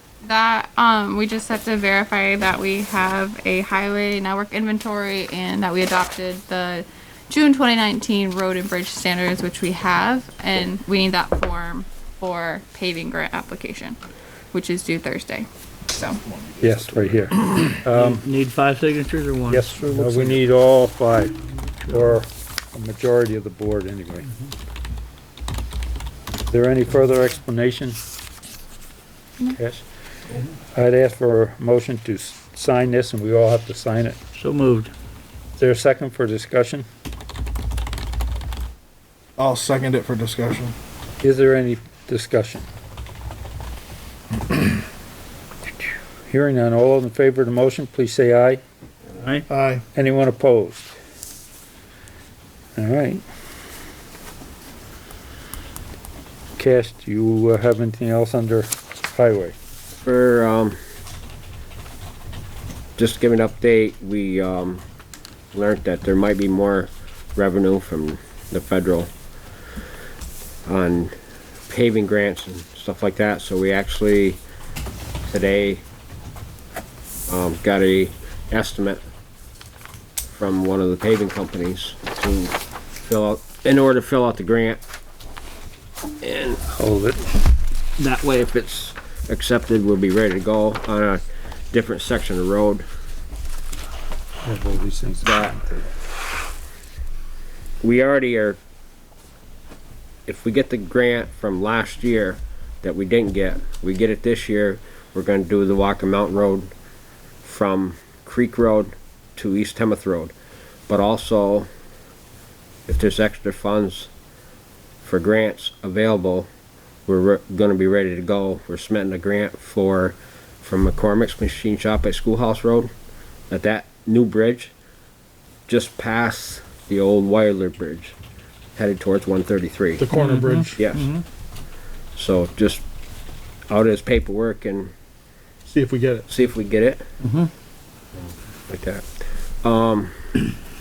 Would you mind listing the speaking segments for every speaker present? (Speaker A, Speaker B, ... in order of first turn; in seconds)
Speaker A: 0.2-14.0, 14.5-16.2
Speaker B: 16.2-17.5, 39.4-40.8, 49.5-49.8, 130.0-130.8, 135.7-136.2
Speaker C: 16.6-18.2, 19.5-21.4, 21.9-24.3, 26.5-28.0, 29.5-29.8, 30.7-34.2, 35.6-36.8, 41.2-42.7, 46.3-48.6, 50.0-50.9, 52.8-53.2, 56.6-59.5, 86.7-87.3, 94.4-95.9
Speaker D: 17.9-20.4, 21.8-22.1, 34.4-34.9, 49.2-49.5, 130.1-131.2, 137.2-137.5
Speaker E: 60.0-60.8, 63.0-64.8, 65.5-69.1, 70.7-71.1, 71.7-74.4, 75.3-75.8, 77.3-79.0, 80.3-82.6, 83.1-84.8, 86.2-86.6, 88.0-92.8, 95.2-95.6, 97.8-98.6, 100.3-106.7, 107.4-110.3, 110.9-111.7, 112.9-114.1, 115.0-116.5, 117.1-122.9, 123.5-124.7, 125.7-128.1, 128.8-130.1, 130.8-131.1, 132.2-132.8, 133.7-134.9, 136.3-137.1, 138.7-140.5